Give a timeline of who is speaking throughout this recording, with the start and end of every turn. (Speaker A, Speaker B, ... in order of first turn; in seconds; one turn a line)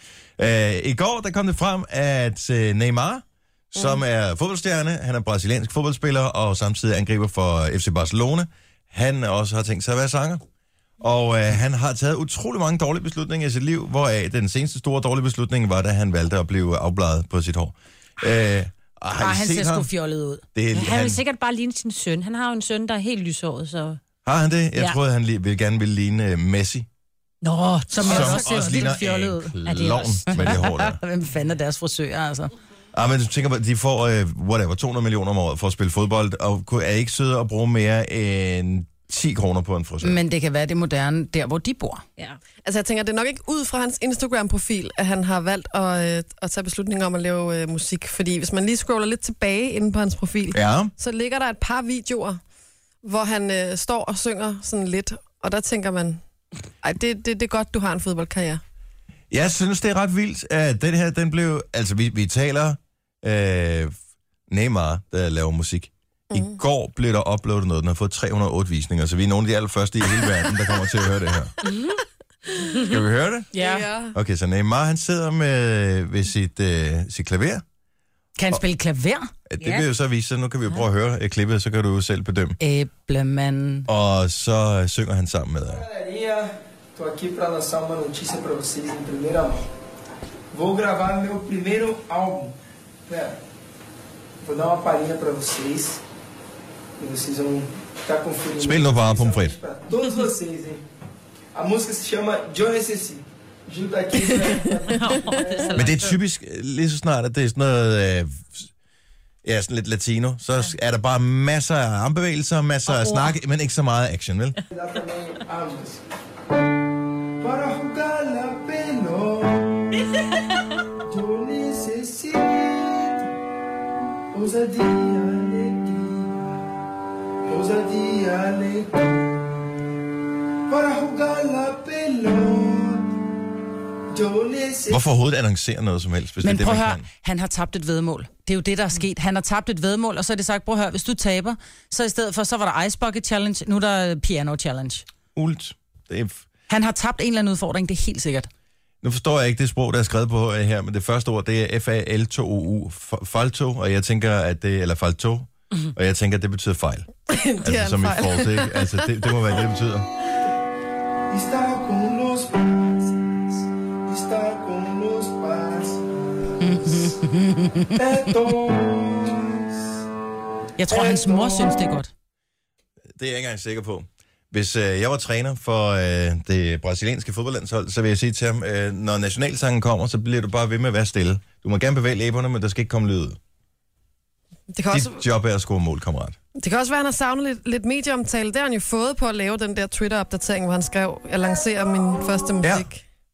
Speaker A: 0.4-10.4
Speaker A: 11.0-19.9
Speaker B: 19.2-20.4
Speaker A: 20.6-21.2
Speaker C: 20.8-24.0
Speaker A: 24.2-26.9
Speaker C: 27.4-30.6
Speaker B: 27.9-29.2
Speaker A: 28.0-31.0
Speaker B: 30.3-32.5
Speaker A: 32.9-40.2
Speaker B: 40.0-42.0
Speaker D: 42.6-52.4
Speaker A: 50.5-50.9
Speaker D: 53.0-56.2
Speaker D: 56.8-58.6
Speaker A: 59.3-63.9
Speaker A: 64.5-71.5
Speaker D: 66.3-66.6
Speaker C: 71.6-72.0
Speaker C: 72.6-72.9
Speaker A: 72.9-73.5
Speaker B: 73.5-73.9
Speaker D: 73.6-74.2
Speaker A: 74.1-77.6
Speaker B: 78.4-79.3
Speaker A: 79.5-82.6
Speaker B: 82.6-83.9
Speaker A: 83.9-85.8
Speaker E: 85.8-89.7
Speaker E: 90.5-92.6
Speaker E: 93.1-93.4
Speaker E: 94.4-96.0
Speaker E: 97.0-100.8
Speaker A: 98.6-99.5
Speaker E: 101.5-105.8
Speaker C: 104.9-106.2
Speaker A: 105.8-108.7
Speaker A: 109.4-114.6
Speaker C: 112.9-113.3
Speaker E: 114.7-116.0
Speaker E: 117.4-120.0
Speaker E: 121.1-123.3
Speaker E: 124.3-126.7
Speaker E: 127.5-129.4
Speaker E: 130.7-133.2
Speaker E: 134.1-135.0
Speaker A: 134.9-137.1
Speaker B: 136.4-145.1
Speaker A: 145.3-146.4
Speaker B: 146.7-148.5
Speaker A: 149.0-157.1
Speaker D: 157.3-159.1
Speaker A: 157.6-160.1
Speaker E: 161.3-167.2
Speaker B: 166.6-168.0
Speaker E: 167.9-169.8
Speaker B: 170.8-172.1
Speaker E: 170.9-171.9
Speaker A: 173.2-183.4
Speaker D: 184.7-185.2
Speaker A: 184.9-186.4
Speaker D: 186.6-193.0